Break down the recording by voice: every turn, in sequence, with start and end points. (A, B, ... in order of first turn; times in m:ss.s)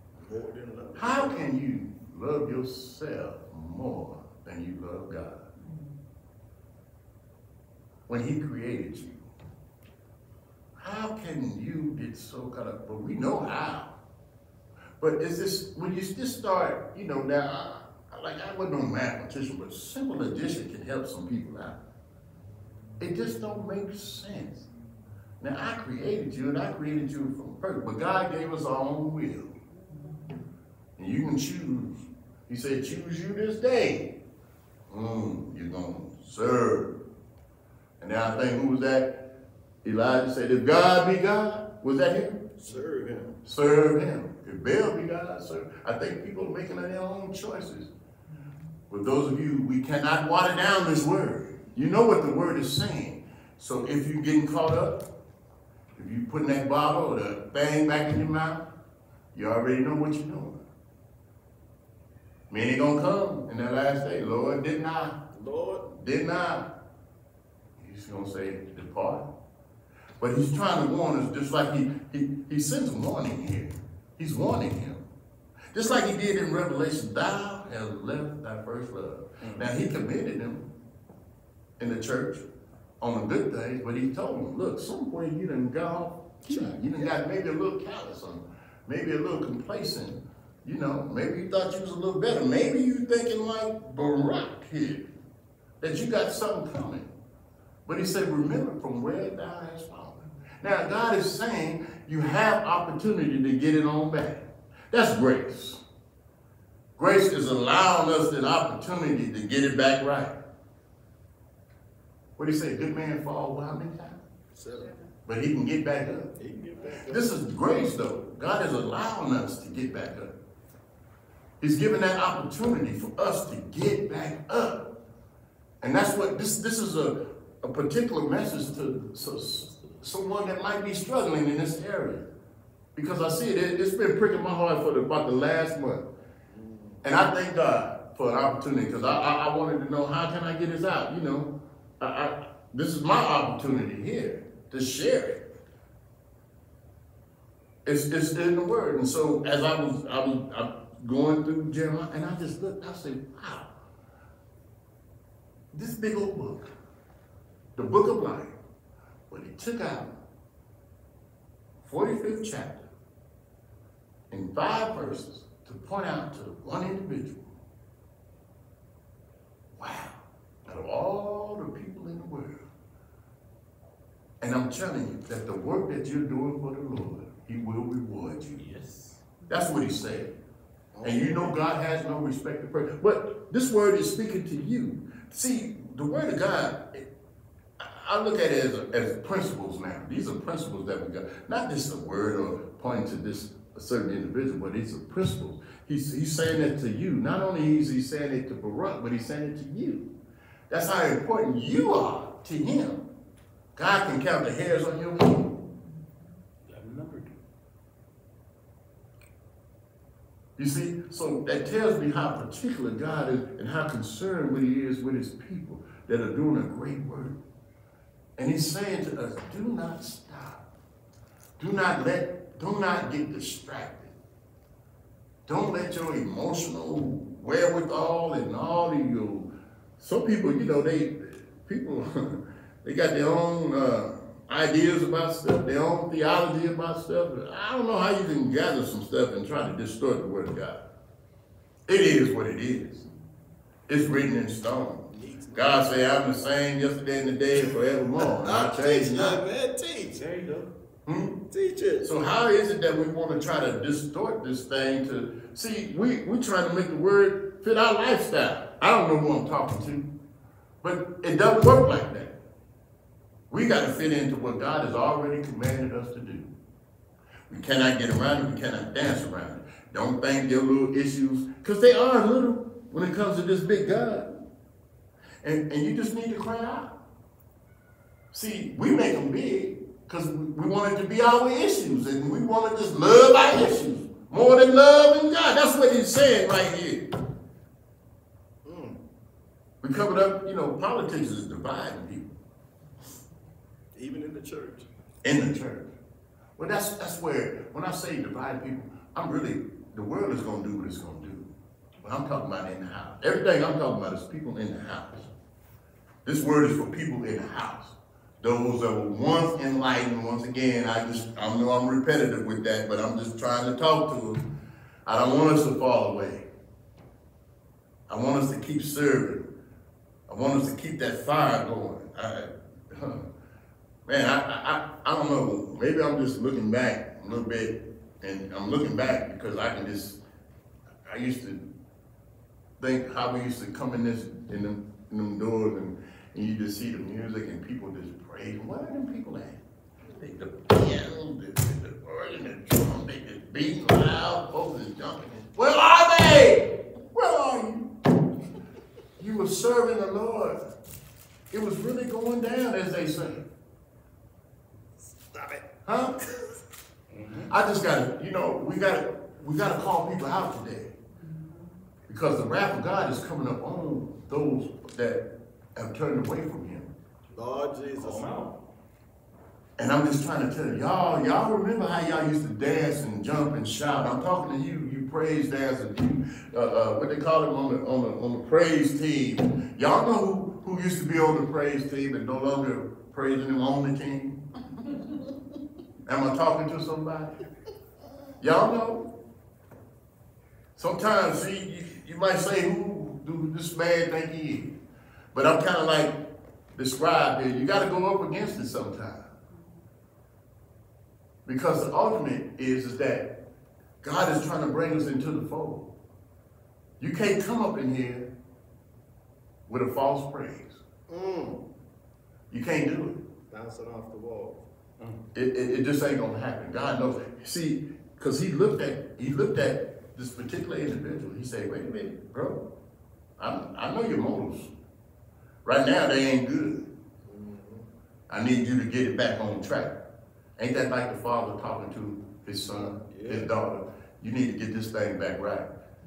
0:00.2-0:01.5 A
0:01.0-0:05.5 B
0:08.1-0:09.2 B
0:10.8-0:13.9 B
0:15.0-0:21.8 B
0:23.0-0:24.7 B
0:25.4-0:29.5 B
0:31.0-0:34.1 B
0:34.9-0:36.9 B
0:38.0-0:39.2 B
0:39.8-0:42.4 B
0:42.6-0:43.4 A
0:43.4-0:47.9 B
0:48.9-0:55.0 B
0:55.9-0:58.6 B
0:59.3-1:00.6 B
1:02.5-1:05.2 B
1:05.3-1:05.9 A
1:05.9-1:06.7 B
1:07.8-1:09.3 B
1:10.2-1:15.0 B
1:15.7-1:20.6 B
1:19.4-1:19.7 C
1:21.8-1:22.4 B
1:23.0-1:35.0 B
1:26.5-1:27.1 A
1:35.8-1:37.1 B
1:37.8-1:45.8 B
1:47.0-1:50.4 B
1:52.4-1:54.2 B
1:54.5-1:54.9 A
1:55.2-1:56.3 B
1:56.4-1:57.3 A
1:57.0-2:00.3 B
2:01.6-2:04.9 B
2:05.8-2:12.3 B
2:12.9-2:16.0 B
2:16.5-2:17.0 A
2:17.0-2:25.4 B
2:27.8-2:33.7 B
2:35.7-2:36.7 B
2:37.8-2:38.6 B
2:39.3-2:40.1 B
2:41.8-2:42.9 B
2:44.3-2:47.5 B
2:49.8-2:52.6 B
2:54.4-2:58.6 B
2:58.3-2:59.2 C
2:59.5-3:00.3 B
3:00.9-3:01.6 A
3:01.0-3:07.1 B
3:07.8-3:20.0 B
3:20.7-3:23.0 B
3:23.8-3:25.6 B
3:26.6-3:27.3 C
3:30.6-3:37.4 B
3:38.4-3:40.6 B
3:41.6-3:44.1 B
3:45.5-4:00.8 B
4:01.9-4:03.0 B
4:03.9-4:09.4 B
4:05.1-4:06.1 A
4:08.2-4:10.4 A
4:10.1-4:10.7 C
4:11.0-4:11.4 B
4:11.5-4:12.1 A
4:12.0-4:20.0 B
4:20.8-4:22.3 B
4:23.5-4:26.5 B
4:27.5-4:34.3 B
4:35.4-4:36.9 B
4:38.3-4:47.1 B
4:48.6-4:49.0 A
4:49.8-4:52.3 B
4:53.9-4:54.9 A
4:55.2-4:55.9 B
4:56.6-5:01.5 B
5:02.0-5:05.3 B
5:06.2-5:14.4 B
5:15.0-5:16.4 B
5:18.1-5:19.5 B
5:20.3-5:23.2 B
5:24.1-5:30.2 B
5:31.0-5:31.6 B
5:32.8-5:47.9 B
5:49.2-5:50.6 B
5:51.5-5:53.5 B
5:55.1-5:55.6 A
5:55.8-5:56.2 B
5:57.1-5:57.5 C
5:57.5-6:00.9 B
6:02.1-6:05.2 B
6:05.8-6:06.9 B
6:07.3-6:08.5 A
6:08.0-6:08.5 C
6:09.8-6:24.4 B
6:26.1-6:27.4 B
6:28.4-6:29.1 B
6:30.8-6:34.7 B
6:35.3-6:36.1 B
6:36.7-6:39.3 B
6:41.4-6:43.3 B
6:44.0-6:45.9 B
6:47.0-6:48.3 B
6:49.7-6:50.8 B
6:51.1-6:51.6 A
6:52.5-6:53.2 B
6:53.5-6:54.6 A
6:55.3-7:02.6 B
7:03.4-7:04.7 B
7:05.6-7:06.9 B
7:07.2-7:07.9 A
7:08.3-7:10.0 B
7:10.6-7:15.7 B
7:13.1-7:13.5 A